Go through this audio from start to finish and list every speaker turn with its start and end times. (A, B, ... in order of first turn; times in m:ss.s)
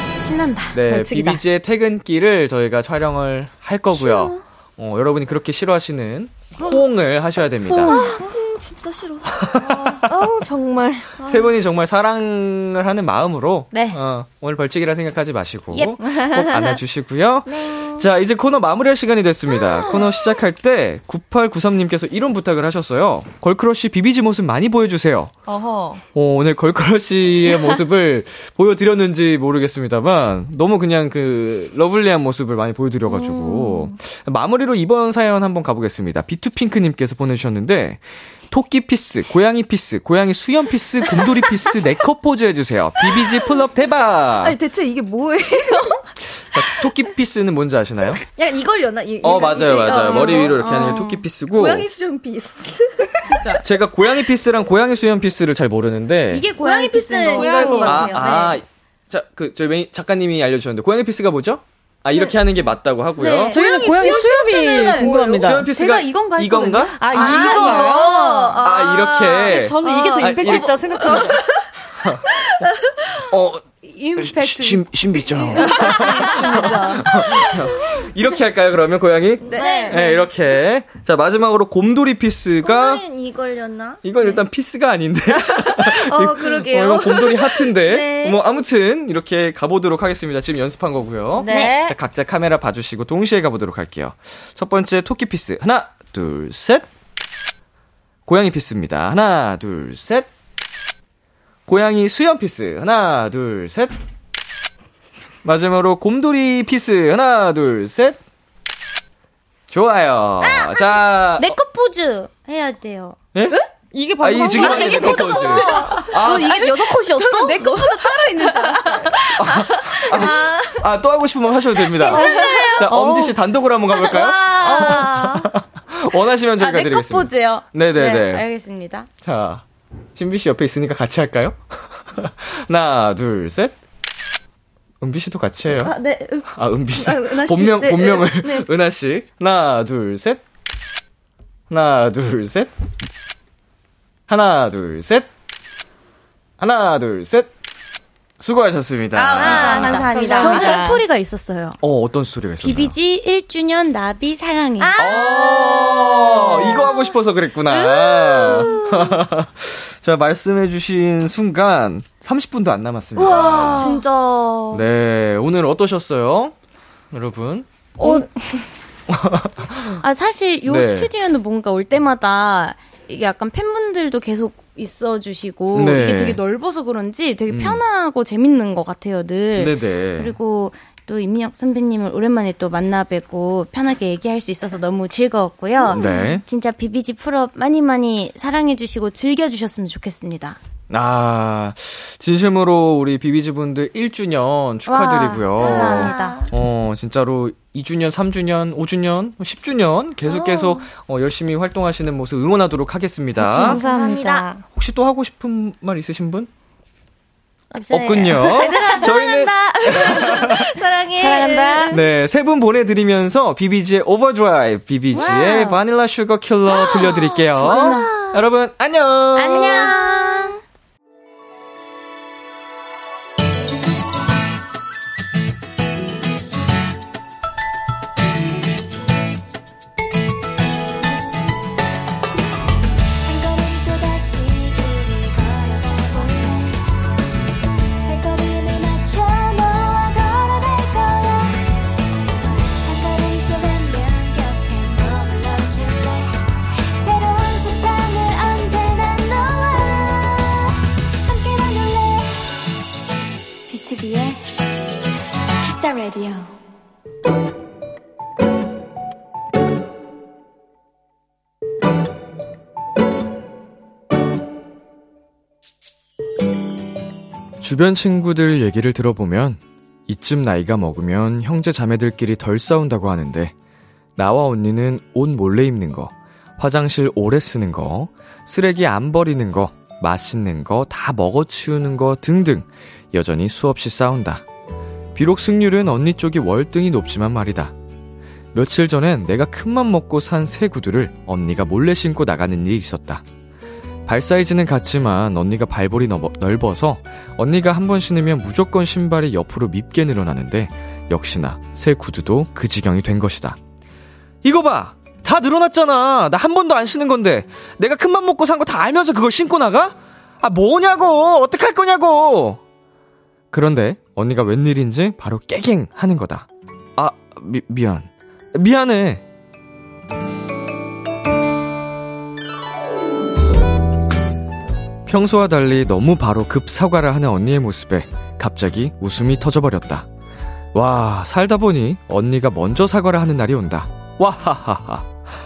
0:00.2-0:00.8 A
0:00.7-0:08.0 B
0:00.9-0:01.4 C
0:04.0-0:04.4 D
0:07.7-0:11.5 D
0:07.9-0:08.2 A
0:09.3-0:10.1 B
0:10.0-0:11.1 C
0:11.2-0:25.3 B
0:13.7-0:14.0 A
0:16.0-0:16.7 D
0:17.5-0:18.0 D
0:26.1-0:44.6 B
0:33.1-0:33.9 D
0:41.2-0:41.7 D
0:43.0-0:43.5 D
0:44.4-0:46.1 D
0:46.4-0:48.2 B
0:48.3-0:53.6 D
0:49.2-0:51.9 B
0:49.9-0:51.2 A
0:53.2-0:53.6 A
0:53.6-0:56.5 B
0:56.3-0:58.6 A
0:56.6-0:58.5 D
0:57.6-1:03.5 B
1:03.2-1:04.2 D
1:03.5-1:05.7 C
1:03.5-1:08.6 A
1:04.8-1:05.2 D
1:05.4-1:07.0 B
1:07.0-1:08.1 C
1:07.1-1:11.6 D
1:08.5-1:11.0 B
1:09.4-1:11.4 C
1:12.0-1:12.6 B
1:13.2-1:13.6 B
1:13.8-1:17.1 A
1:14.2-1:23.0 B
1:15.5-1:17.2 D
1:19.5-1:20.2 D
1:19.6-1:20.0 C
1:19.6-1:20.1 A
1:22.6-1:24.0 D
1:24.0-1:36.9 B
1:25.3-1:28.4 D
1:31.4-1:31.9 C
1:31.5-1:31.9 A
1:38.2-1:40.3 B
1:41.7-1:44.0 B
1:45.4-1:48.2 B
1:49.7-1:51.6 B
1:50.4-1:53.2 A
1:53.3-1:53.6 B
1:53.9-1:56.0 C
1:54.2-1:56.7 B
1:54.5-2:00.8 D
1:55.2-1:56.4 A
1:57.2-1:59.2 A
1:59.2-2:08.4 B
2:01.9-2:02.9 D
2:02.0-2:02.8 A
2:02.1-2:03.4 C
2:03.9-2:05.5 D
2:06.6-2:09.1 A
2:09.2-2:09.6 B
2:10.2-2:11.6 B
2:12.1-2:13.7 B
2:15.0-2:16.0 B
2:15.7-2:18.7 D
2:16.5-2:20.4 B
2:21.7-2:22.7 B
2:24.3-2:25.3 B
2:26.6-2:27.5 B
2:28.4-2:30.2 B
2:29.1-2:31.8 A
2:29.4-2:30.9 D
2:30.0-2:31.0 C
2:31.8-2:33.0 B
2:32.6-2:35.0 A
2:34.8-2:37.2 D
2:35.0-2:44.0 B
2:37.7-2:39.2 D
2:43.2-2:44.8 D
2:43.3-2:44.0 A
2:44.7-2:46.5 B
2:47.1-2:48.2 B
2:48.0-2:48.3 C
2:49.1-2:50.0 B
2:50.0-3:10.6 A
2:50.6-2:51.1 B
2:55.7-2:56.4 B
2:57.5-2:57.8 B
2:59.6-3:00.4 B
3:05.8-3:06.3 D
3:05.9-3:06.4 B
3:10.9-3:23.8 B
3:14.8-3:16.4 A
3:15.6-3:16.5 D
3:20.3-3:20.8 D
3:23.4-3:24.6 C
3:23.5-3:24.5 D
3:24.7-3:26.5 B
3:27.7-3:29.1 A
3:27.9-3:30.8 B
3:28.4-3:32.0 D
3:31.2-3:32.0 C
3:31.9-3:39.9 B
3:35.1-3:35.8 A
3:36.8-3:38.3 D
3:37.6-3:38.1 A
3:39.3-3:40.6 A
3:53.2-3:56.8 E
3:58.0-4:01.7 E
4:02.8-4:06.4 E
4:06.9-4:12.4 E
4:13.7-4:14.7 E
4:15.6-4:16.5 E
4:27.6-4:33.5 B
4:34.2-4:44.4 B
4:45.1-4:47.7 B
4:48.5-4:53.2 B
4:54.0-5:03.6 B
5:04.4-5:12.6 B
5:13.5-5:19.2 B
5:25.1-5:30.1 B
5:30.7-5:35.1 B